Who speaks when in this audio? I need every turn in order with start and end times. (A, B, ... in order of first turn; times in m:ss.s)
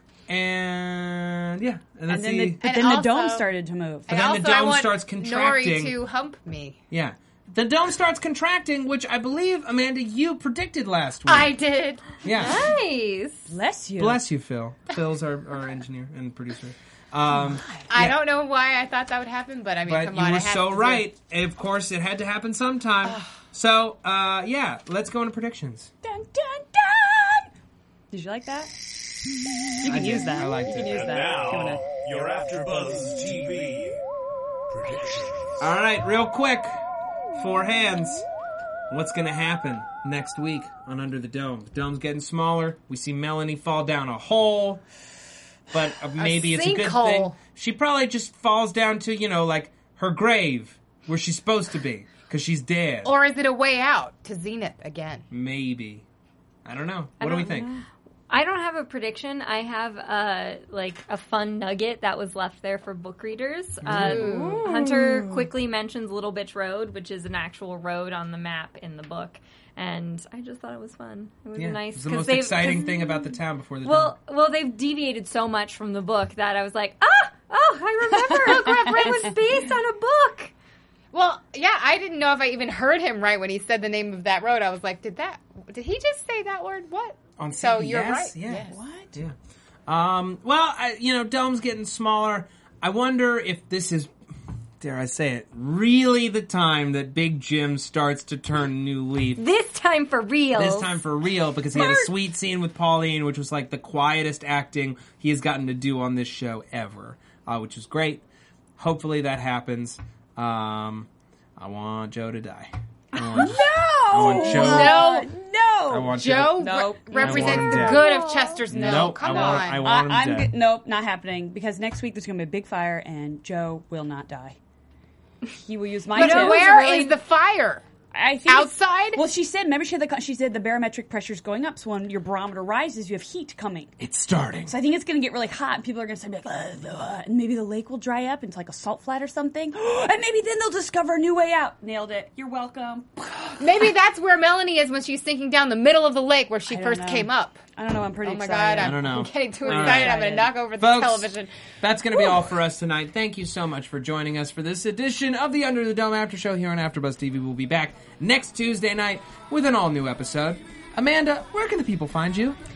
0:00.3-0:02.6 A
0:02.1-0:04.1 B
0:02.6-0:03.5 C
0:04.1-0:06.0 A
0:04.1-0:06.8 C
0:06.9-0:11.6 A
0:11.3-0:12.2 C
0:12.2-0:12.7 A
0:12.3-0:13.5 D
0:13.5-0:14.2 B
0:14.0-0:18.2 A
0:17.9-0:21.0 C
0:19.9-0:25.9 A
0:26.0-0:27.5 B
0:28.1-0:28.7 B
0:29.8-0:31.8 B
0:29.8-0:31.1 A
0:30.9-0:34.0 E
0:34.7-0:35.6 E
0:35.6-0:36.8 A
0:37.4-0:38.2 A
0:38.9-0:44.8 A
0:45.7-0:53.1 A
0:46.2-0:47.4 C
0:53.0-0:55.3 C
0:55.3-0:56.0 A
0:56.6-0:57.7 A
0:57.2-0:57.7 D
0:58.3-1:13.1 D
1:03.8-1:05.1 A
1:03.9-1:04.7 C
1:11.6-1:14.2 A
1:13.8-1:20.5 D
1:18.3-1:19.3 B
1:21.1-1:28.8 C
1:27.4-1:29.4 A
1:28.6-1:29.1 B
1:29.9-1:34.1 A
1:34.8-1:39.4 A
1:39.4-1:41.0 D
1:40.6-1:48.2 A
1:41.7-1:42.1 D
1:48.8-1:55.2 A
1:53.2-2:04.6 B
1:54.2-1:55.3 C
1:55.9-1:58.1 A
1:56.1-1:59.9 C
1:58.7-2:00.5 A
2:05.6-2:06.9 B
2:06.1-2:07.2 D
2:06.1-2:07.8 C
2:08.1-2:13.9 B
2:08.5-2:09.2 C
2:14.0-2:14.7 A
2:14.7-2:23.9 B
2:23.6-2:27.6 C
2:26.7-2:30.6 B
2:28.2-2:31.5 C
2:28.8-2:30.2 A
2:30.8-2:42.6 A